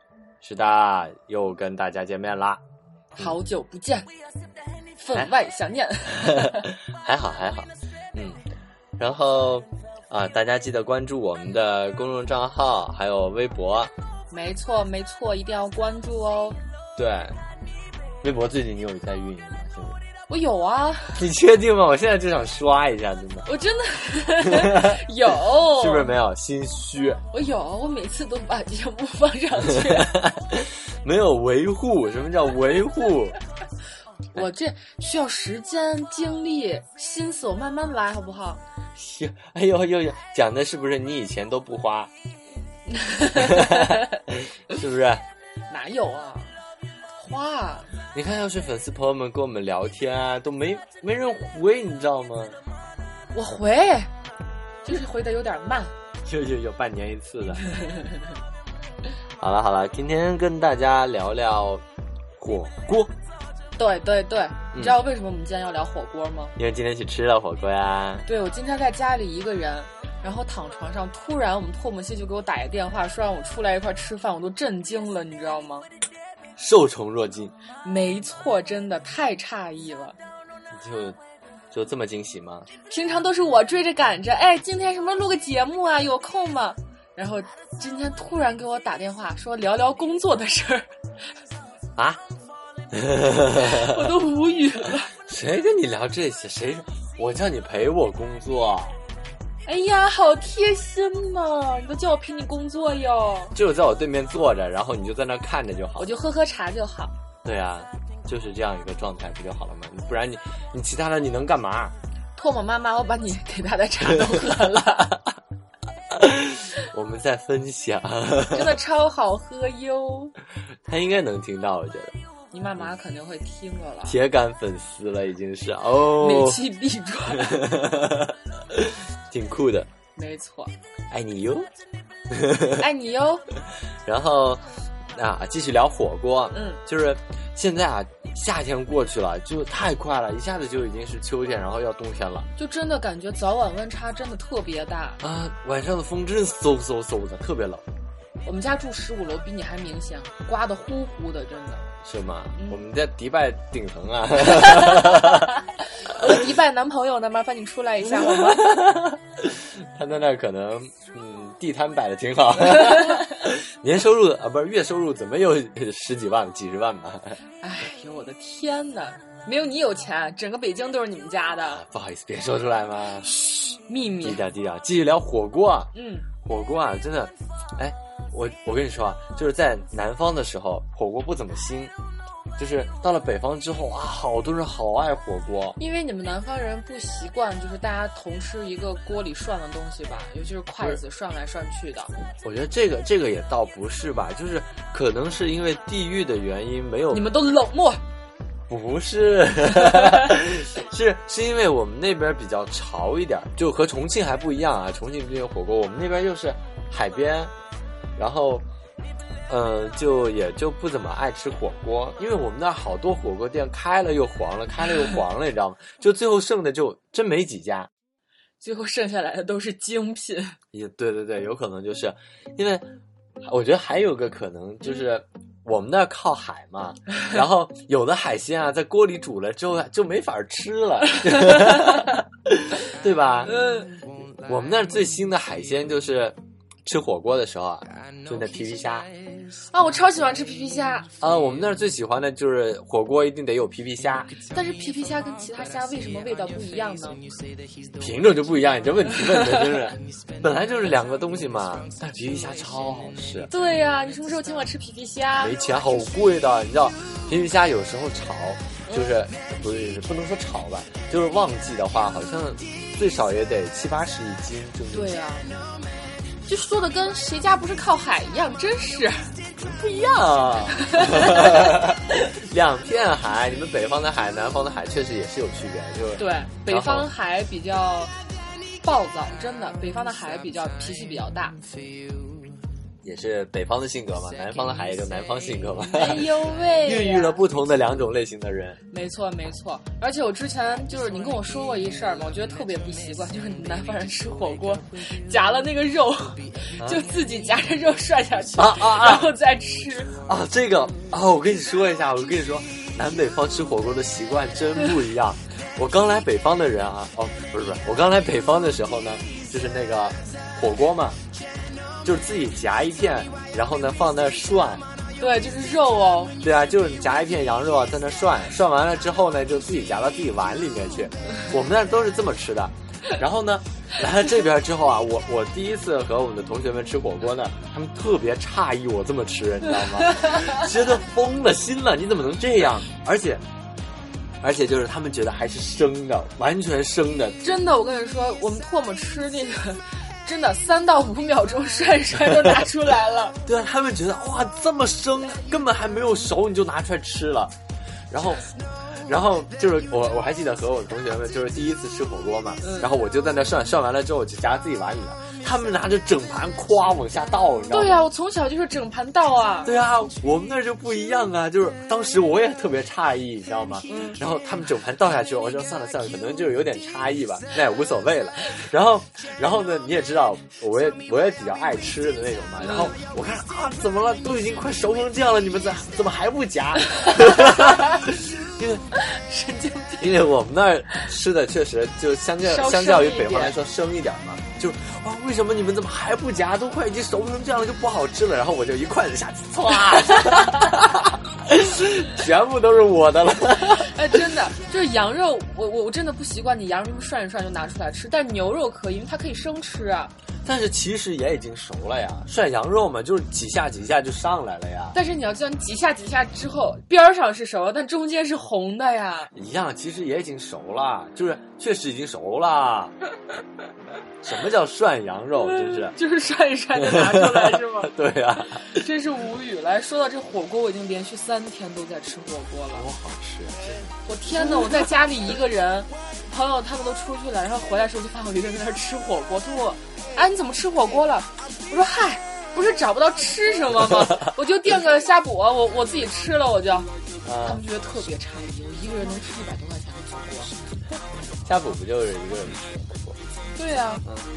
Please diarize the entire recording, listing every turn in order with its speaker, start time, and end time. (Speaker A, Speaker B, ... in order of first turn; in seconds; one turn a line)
Speaker A: 0.4-2.6
Speaker B: 3.1-4.1
Speaker B: 5.0-6.7
Speaker A: 6.1-8.4
Speaker A: 9.0-13.9
Speaker B: 14.3-16.6
Speaker A: 16.9-17.4
Speaker A: 18.2-20.0
Speaker B: 20.3-21.2
Speaker A: 21.1-23.5
Speaker B: 23.4-26.1
Speaker A: 24.4-27.2
Speaker B: 27.3-30.1
Speaker A: 29.7-33.4
Speaker B: 34.3-38.6
Speaker A: 38.9-42.1
Speaker B: 42.9-44.0
Speaker A: 43.2-45.2
Speaker B: 45.7-46.5
Speaker B: 47.1-47.9
Speaker A: 48.1-52.6
Speaker B: 53.3-54.1
Speaker B: 54.8-55.9
Speaker A: 56.2-57.6
Speaker A: 59.4-61.8
Speaker A: 62.4-63.1
Speaker B: 63.8-66.5
Speaker A: 64.7-65.0
Speaker A: 66.5-68.3
Speaker B: 68.3-75.9
Speaker A: 76.6-77.5
Speaker B: 77.8-80.2
Speaker A: 80.7-81.2
Speaker A: 81.7-82.7
Speaker B: 82.9-90.9
Speaker A: 92.9-94.1
Speaker B: 93.5-95.1
Speaker A: 95.2-99.0
Speaker B: 99.6-103.5
Speaker A: 103.5-106.2
Speaker B: 106.0-107.1
Speaker A: 107.4-111.9
Speaker B: 112.3-115.2
Speaker A: 116.1-118.8
Speaker B: 118.5-120.3
Speaker A: 120.8-122.2
Speaker B: 122.5-124.2
Speaker A: 124.1-126.6
Speaker B: 126.1-127.6
Speaker A: 127.3-129.9
Speaker B: 130.2-130.7
Speaker A: 131.1-131.7
Speaker A: 132.3-132.8
Speaker B: 132.8-133.4
Speaker A: 134.0-142.5
Speaker B: 136.5-136.8
Speaker B: 142.6-145.2
Speaker A: 145.2-147.8
Speaker B: 148.4-151.9
Speaker A: 152.0-155.6
Speaker B: 152.6-152.8
Speaker B: 154.4-155.4
Speaker B: 156.0-158.9
Speaker A: 158.1-167.4
Speaker B: 167.6-171.8
Speaker A: 171.7-175.9
Speaker B: 173.8-174.4
Speaker B: 175.9-176.3
Speaker A: 176.4-181.9
Speaker A: 182.6-185.8
Speaker B: 185.8-192.1
Speaker A: 192.4-197.3
Speaker B: 197.1-198.0
Speaker A: 198.7-207.5
Speaker A: 208.2-208.6
Speaker A: 209.5-217.9
Speaker B: 218.6-220.6
Speaker A: 220.7-233.6
Speaker B: 233.5-233.9
Speaker A: 234.4-239.1
Speaker B: 239.7-241.1
Speaker A: 241.2-244.3
Speaker B: 244.5-247.2
Speaker A: 248.0-253.5
Speaker B: 253.5-255.6
Speaker A: 255.4-265.6
Speaker B: 264.9-265.4
Speaker B: 266.4-269.3
Speaker A: 269.6-277.1
Speaker B: 270.7-271.8
Speaker B: 276.2-278.1
Speaker B: 278.8-281.6
Speaker A: 283.0-286.3
Speaker B: 285.9-287.4
Speaker A: 286.8-288.8
Speaker B: 288.9-300.1
Speaker A: 296.8-297.0
Speaker A: 298.6-299.3
Speaker A: 300.3-311.2
Speaker A: 312.0-314.8
Speaker B: 315.2-316.3
Speaker A: 316.4-333.4
Speaker A: 334.4-337.4
Speaker B: 337.4-343.4
Speaker A: 343.4-347.5
Speaker A: 348.1-358.1
Speaker B: 352.6-352.9
Speaker B: 357.7-359.7
Speaker A: 359.6-378.8
Speaker B: 363.9-364.2
Speaker B: 372.6-372.9
Speaker B: 377.1-378.0
Speaker B: 378.9-380.1
Speaker A: 380.0-394.2
Speaker B: 382.4-383.6
Speaker B: 393.6-400.1
Speaker A: 400.4-405.0
Speaker B: 404.9-409.3
Speaker A: 409.3-412.9
Speaker A: 414.2-416.0
Speaker B: 415.5-417.9
Speaker A: 416.8-418.8
Speaker B: 418.5-422.9
Speaker A: 422.7-424.9
Speaker B: 424.1-440.5
Speaker A: 437.2-437.6
Speaker A: 441.4-443.2
Speaker B: 443.6-444.0